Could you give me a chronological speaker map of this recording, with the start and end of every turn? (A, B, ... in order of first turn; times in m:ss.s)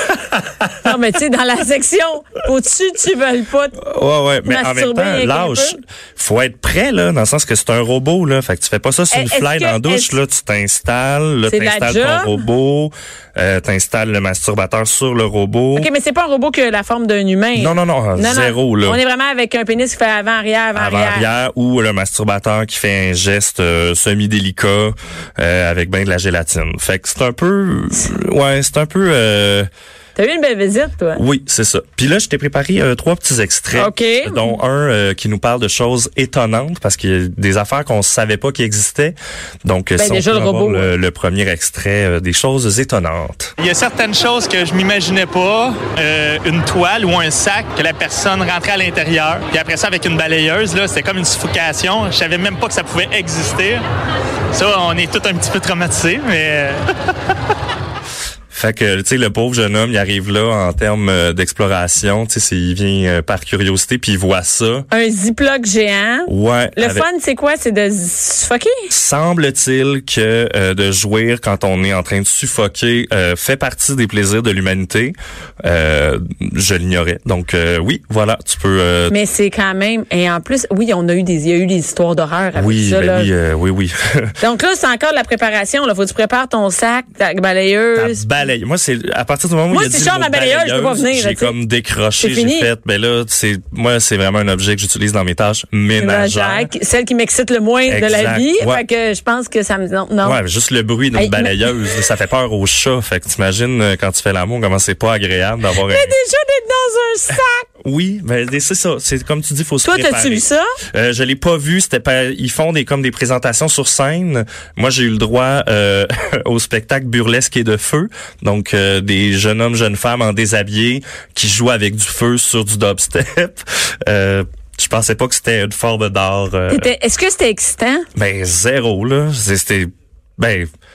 0:00.8-0:03.8 A
0:03.8-0:15.9 B
0:04.4-0:05.8 A
0:09.1-0:10.2 A
0:11.5-0:12.4 A
0:15.8-0:21.3 A
0:17.6-0:19.0 B
0:20.8-0:29.7 B
0:30.2-0:31.2 A
0:31.2-0:43.5 B
0:33.8-0:34.6 A
0:40.0-0:40.9 A
0:43.6-0:53.8 C
0:54.5-0:56.8 C
0:58.5-1:04.9 B
1:04.9-1:08.8 A
1:06.3-1:07.1 B
1:08.9-1:19.2 B
1:19.1-1:23.3 A
1:22.6-1:24.4 B
1:24.4-1:28.2 A
1:28.0-1:36.7 B
1:29.7-1:31.6 A
1:32.2-1:32.7 A
1:36.0-1:40.4 A
1:37.9-1:38.8 B
1:40.2-1:46.2 B
1:41.1-1:41.6 A
1:45.9-1:47.7 A
1:47.8-2:06.9 B
1:49.8-1:50.7 A
2:06.7-2:08.1 A
2:08.2-2:10.7 B